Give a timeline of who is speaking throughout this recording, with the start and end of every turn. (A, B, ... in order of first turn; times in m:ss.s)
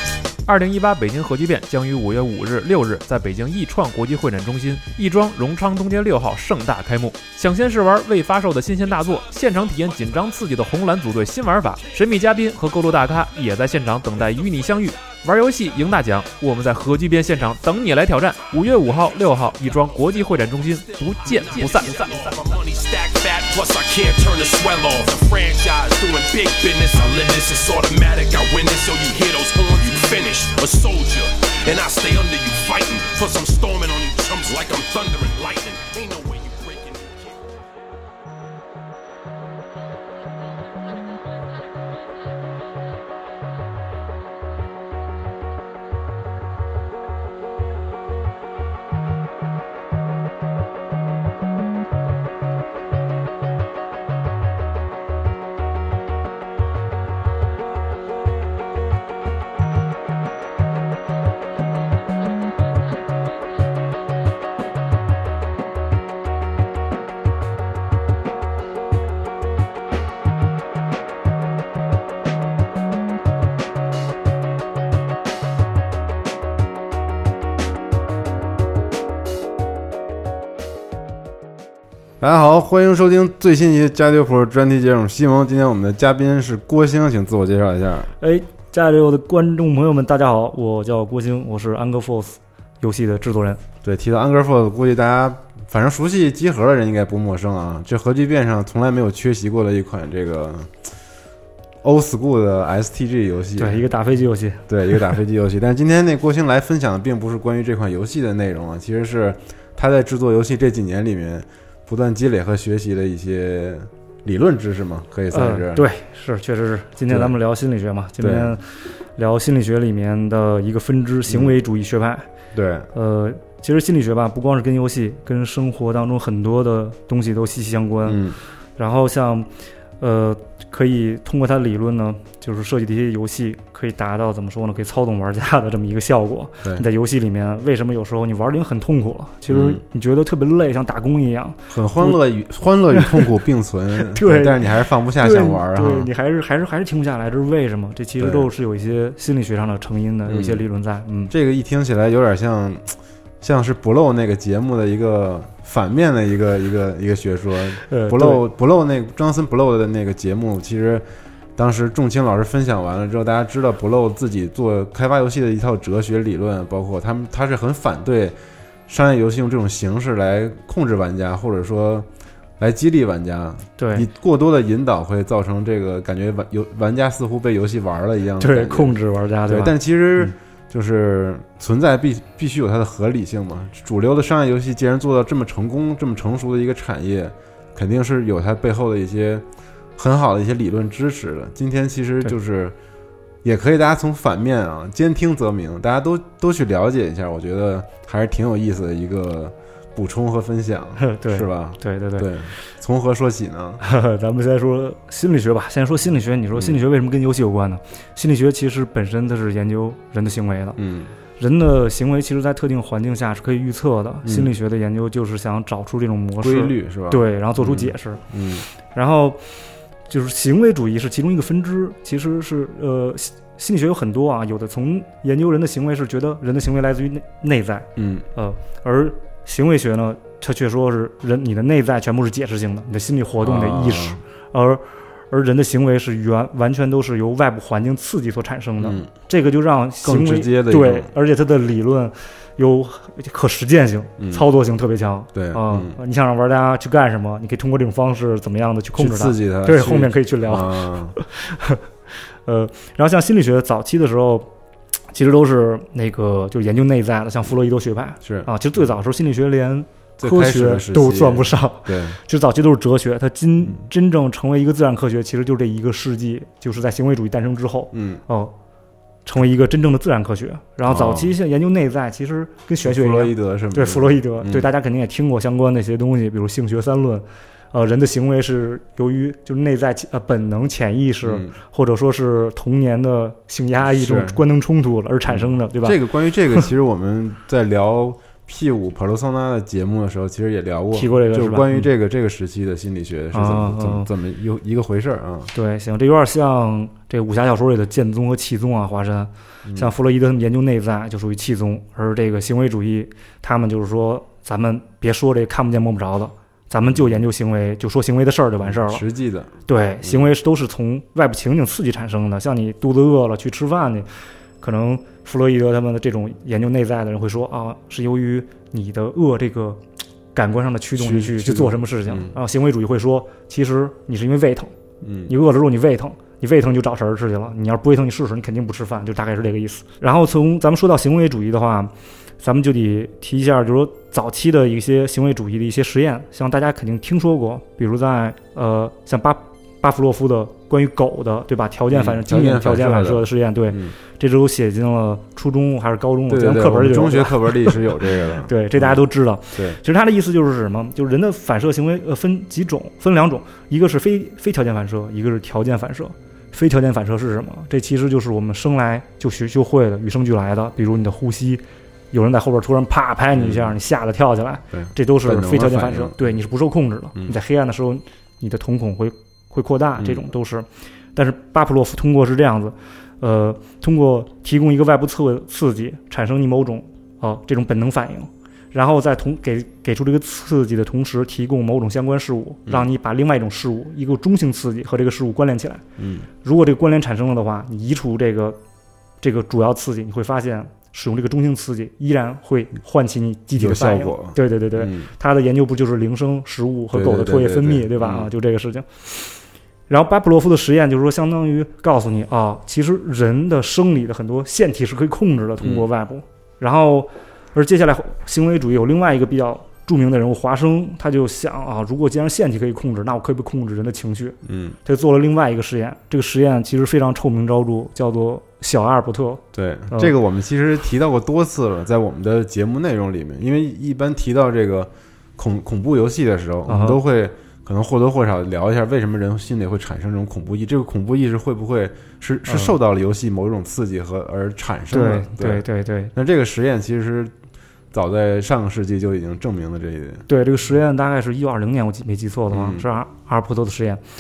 0:00.4-0:22.4 A
0:21.2-0:37.4 B
1:22.2-1:28.1 C
1:28.2-1:33.6 D
1:33.8-1:40.9 C
1:41.8-1:43.8 C
1:43.6-1:45.1 D
1:44.7-1:55.9 C
1:55.3-2:02.3 D
1:57.1-1:57.4 C
1:58.2-1:58.6 C
2:01.3-2:01.6 C
2:02.5-2:02.9 C
2:02.9-2:08.2 D
2:08.0-2:08.4 C
2:08.8-2:09.5 D
2:10.0-2:22.2 D
2:19.5-2:19.8 C
2:21.7-2:26.1 C
2:22.9-2:23.3 D
2:24.0-2:31.3 D
2:28.2-2:28.5 C
2:30.3-2:30.7 C
2:31.3-2:41.0 C
2:37.9-2:38.5 D
2:41.6-2:48.4 C
2:48.9-2:52.1 C
2:52.6-3:09.4 C
2:53.8-2:54.1 D
2:58.4-3:00.4 D
3:10.0-3:12.8 C
3:13.4-3:23.8 C
3:21.0-3:22.3 D
3:23.8-3:30.8 D
3:26.6-3:26.8 C
3:30.8-3:31.1 C
3:31.4-3:38.2 D
3:34.2-3:34.6 C
3:36.4-3:38.6 C
3:38.9-3:39.4 D
3:40.1-4:11.8 D
3:48.0-3:48.2 C
3:53.4-3:54.2 C
3:58.8-3:59.1 C
4:00.0-4:01.1 C
4:04.2-4:04.5 C
4:05.3-4:06.0 C
4:09.0-4:11.2 C
4:12.5-4:14.5 D
4:15.1-4:28.5 D
4:18.2-4:18.5 C
4:20.2-4:22.2 C
4:27.9-4:28.2 C
4:29.2-4:46.0 D
4:30.9-4:31.3 C
4:32.8-4:34.7 C
4:41.2-4:41.6 C
4:43.8-4:44.4 C
4:45.3-4:55.5 C
4:50.9-4:51.9 D
4:53.3-4:54.1 D
4:55.5-5:09.0 D
4:59.7-4:59.9 C
5:06.9-5:07.2 C
5:08.6-5:10.3 C
5:09.7-5:14.1 D
5:14.6-5:19.8 D
5:20.3-5:24.7 D
5:21.0-5:22.4 C
5:25.0-5:25.3 C
5:25.3-5:47.8 D
5:41.9-5:43.9 C
5:46.3-5:49.0 C
5:48.4-6:25.8 D
6:03.4-6:03.8 C
6:04.7-6:06.3 C
6:10.0-6:10.2 C
6:26.0-6:26.3 C
6:26.4-6:28.6 D
6:29.2-6:39.4 D
6:33.6-6:35.1 C
6:36.9-6:38.3 C
6:39.9-7:00.2 D
6:45.6-6:45.9 C
6:54.4-6:54.8 C
6:59.5-7:17.3 C
7:06.7-7:07.0 D
7:12.5-7:12.8 D
7:14.9-7:16.1 D
7:17.9-7:20.3 C
7:20.3-7:24.0 D
7:22.5-7:22.8 C